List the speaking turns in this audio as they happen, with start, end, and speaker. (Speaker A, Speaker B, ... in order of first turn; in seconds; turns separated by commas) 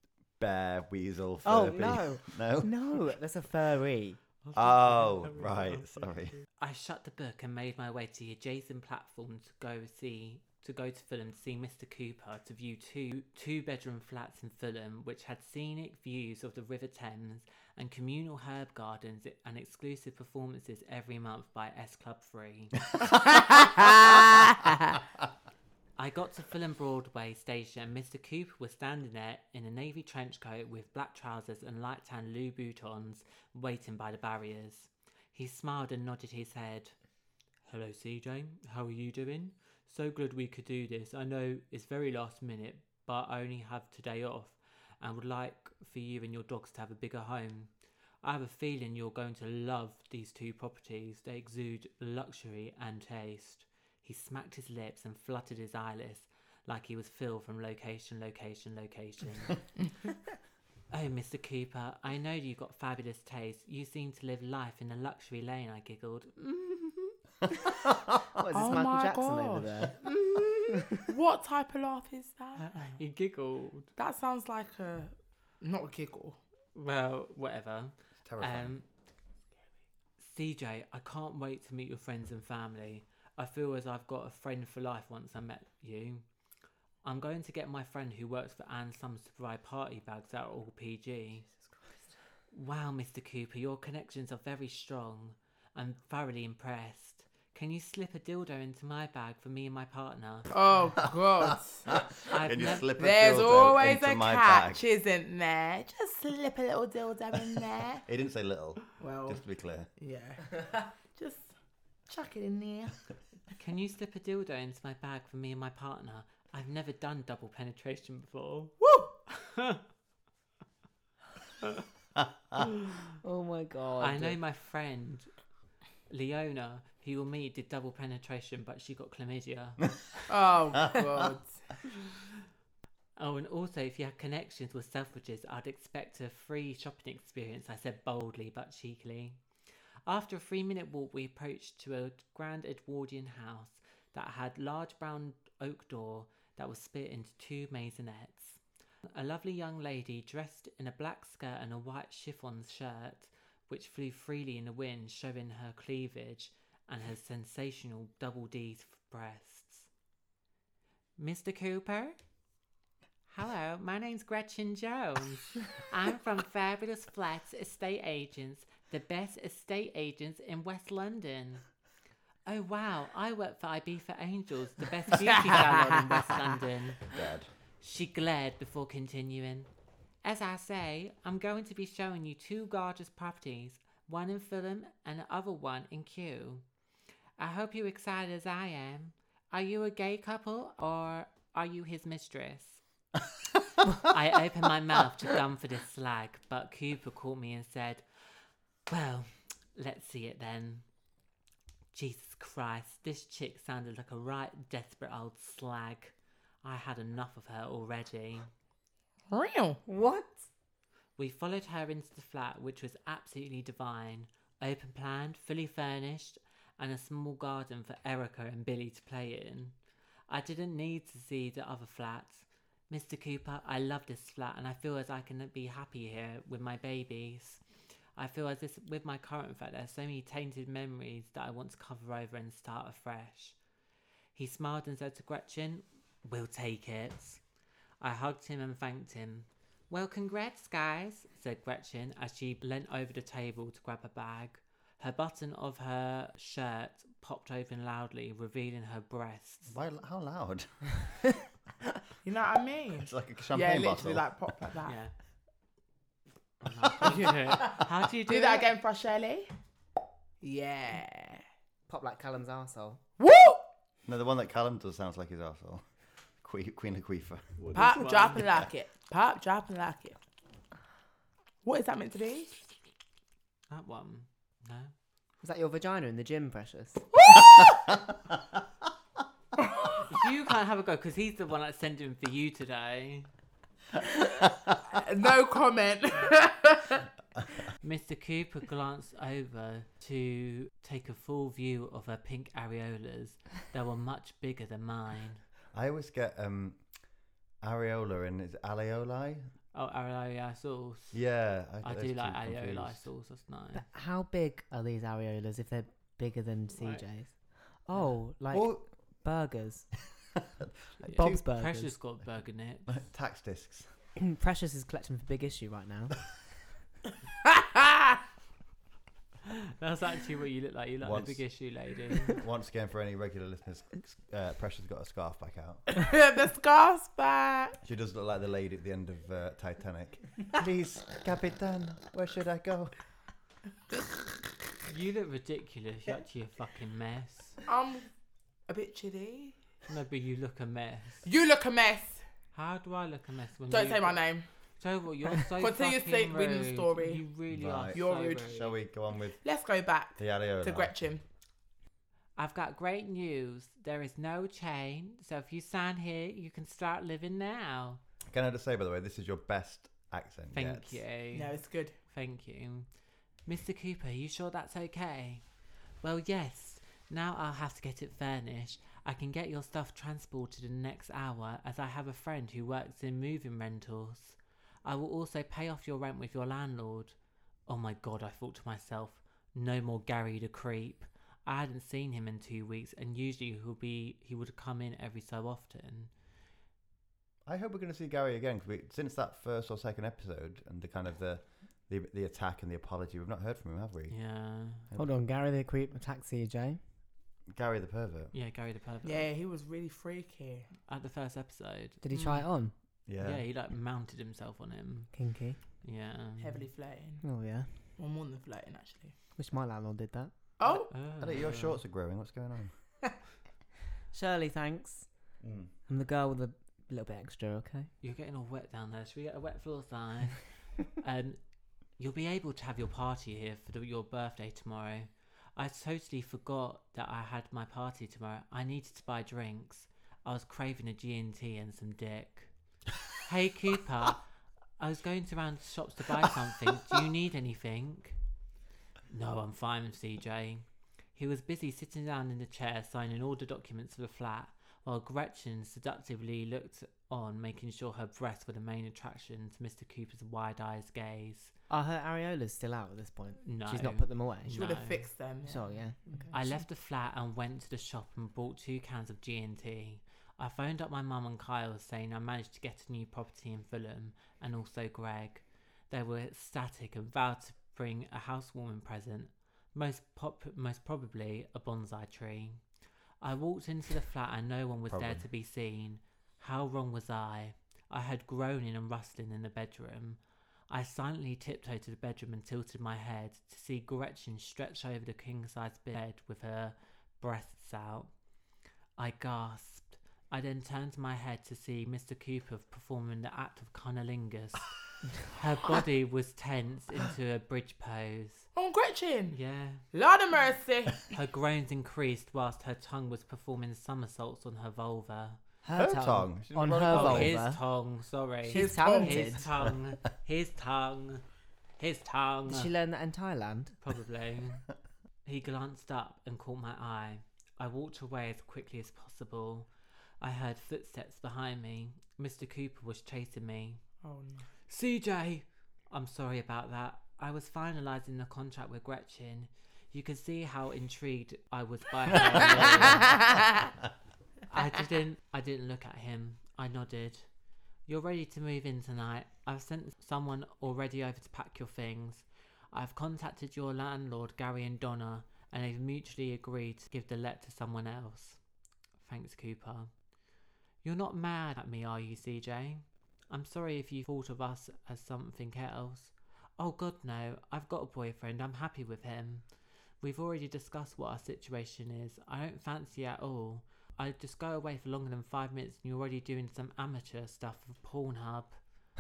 Speaker A: 0.4-2.7, Speaker B: 1.4-4.2, Speaker C: 4.5-5.6, Speaker A: 4.5-6.4, Speaker C: 6.5-22.8, Speaker C: 26.0-36.9, Speaker C: 37.7-47.7, Speaker C: 48.2-59.6, Speaker C: 60.9-66.5, Speaker B: 68.3-70.0, Speaker D: 68.5-72.7, Speaker C: 72.6-73.9, Speaker D: 74.0-76.4, Speaker C: 76.7-78.8, Speaker A: 78.2-78.7, Speaker C: 80.2-86.2, Speaker C: 87.0-91.5, Speaker C: 92.5-100.5, Speaker D: 100.5-102.0, Speaker A: 101.4-104.8, Speaker C: 102.3-102.8, Speaker D: 103.0-108.0, Speaker A: 108.0-109.9, Speaker D: 109.0-109.4, Speaker D: 110.0-111.5, Speaker D: 112.1-113.0, Speaker C: 113.6-119.8, Speaker B: 123.2-124.4, Speaker C: 124.0-125.3, Speaker C: 126.1-130.2, Speaker D: 130.3-131.7, Speaker C: 133.2-139.4, Speaker C: 140.1-159.9, Speaker C: 161.2-162.2, Speaker C: 163.3-171.6, Speaker C: 172.4-177.2, Speaker A: 177.1-177.5, Speaker C: 177.8-179.7, Speaker C: 180.2-186.6, Speaker C: 187.4-192.8, Speaker C: 194.0-200.8, Speaker C: 201.9-208.5, Speaker D: 209.3-209.8, Speaker B: 209.8-210.5, Speaker C: 211.2-219.7, Speaker C: 220.3-227.6, Speaker C: 228.2-233.6, Speaker C: 234.3-237.4, Speaker C: 238.0-249.7, Speaker A: 249.7-251.4, Speaker D: 252.2-255.0, Speaker A: 253.0-254.5, Speaker C: 254.8-255.1, Speaker C: 256.6-258.7, Speaker D: 257.0-259.5, Speaker D: 260.4-261.4, Speaker B: 261.9-263.0, Speaker D: 263.2-263.6, Speaker A: 264.1-265.9, Speaker A: 266.4-267.9, Speaker D: 267.7-270.2, Speaker C: 267.7-268.4, Speaker D: 271.6-272.5, Speaker C: 273.7-274.9, Speaker B: 275.4-277.2, Speaker C: 280.1-283.3, Speaker D: 284.9-287.1, Speaker C: 287.8-295.4, Speaker A: 295.7-296.9, Speaker A: 297.6-299.5, Speaker C: 299.7-301.2, Speaker A: 301.1-303.1, Speaker C: 301.8-303.8, Speaker B: 303.7-309.9, Speaker C: 306.7-307.0, Speaker A: 308.5-308.9, Speaker A: 310.6-311.4, Speaker C: 311.0-312.9, Speaker B: 311.1-311.9, Speaker A: 312.9-313.9, Speaker B: 314.2-316.4, Speaker D: 317.4-318.2, Speaker C: 319.5-322.4, Speaker A: 321.0-321.4, Speaker A: 322.3-325.8, Speaker D: 325.9-327.8, Speaker A: 327.8-333.0, Speaker C: 334.9-337.6, Speaker D: 337.7-338.1, Speaker D: 338.7-339.6, Speaker C: 339.9-341.2, Speaker D: 341.2-342.2, Speaker C: 342.5-344.2, Speaker D: 343.7-344.5, Speaker C: 344.8-348.8, Speaker D: 345.4-347.2, Speaker A: 347.5-349.4, Speaker D: 347.9-348.6, Speaker D: 349.4-351.2, Speaker A: 350.2-350.9, Speaker C: 352.4-358.0, Speaker A: 358.3-361.0, Speaker C: 360.5-362.9, Speaker D: 361.3-362.0, Speaker C: 363.4-365.4, Speaker C: 366.0-377.1, Speaker C: 377.7-386.1, Speaker A: 387.4-394.1, Speaker C: 394.1-394.8, Speaker B: 394.9-396.8, Speaker A: 397.5-398.3, Speaker C: 398.3-399.3, Speaker D: 399.0-400.7, Speaker C: 400.9-402.0, Speaker B: 402.0-402.7, Speaker D: 402.1-402.4, Speaker A: 403.1-403.4, Speaker C: 403.2-405.1, Speaker B: 405.1-405.6, Speaker C: 405.8-406.6, Speaker D: 406.4-407.3, Speaker B: 407.2-407.7, Speaker D: 408.0-409.1, Speaker B: 409.4-410.3, Speaker D: 410.6-410.9, Speaker C: 410.9-411.8, Speaker A: 411.2-412.7, Speaker B: 414.1-415.1, Speaker A: 415.4-415.7, Speaker B: 415.9-417.9, Speaker C: 418.0-421.4, Speaker C: 422.0-432.5, Speaker C: 433.2-434.2, Speaker C: 434.8-438.2, Speaker C: 439.1-451.5, Speaker B: 451.7-454.6, Speaker C: 453.4-455.0, Speaker D: 454.5-456.3, Speaker B: 455.4-456.2, Speaker C: 456.3-472.6, Speaker C: 473.2-488.1, Speaker A: 474.9-475.2, Speaker C: 489.0-498.5, Speaker D: 498.5-499.4, Speaker C: 499.3-499.9, Speaker D: 499.9-501.1, Speaker C: 501.1-505.4, Speaker B: 505.6-507.6, Speaker A: 505.8-507.4, Speaker C: 506.9-511.2, Speaker B: 508.4-509.6, Speaker D: 508.5-509.4, Speaker C: 511.8-512.7, Speaker B: 512.5-513.7, Speaker C: 513.8-514.6, Speaker C: 515.2-519.7, Speaker C: 520.2-523.8, Speaker D: 524.0-524.5, Speaker C: 524.7-533.2, Speaker A: 532.4-533.1, Speaker D: 533.0-533.4, Speaker C: 534.5-537.3, Speaker C: 537.9-548.4, Speaker C: 549.0-549.9, Speaker C: 550.8-559.4, Speaker C: 560.0-568.6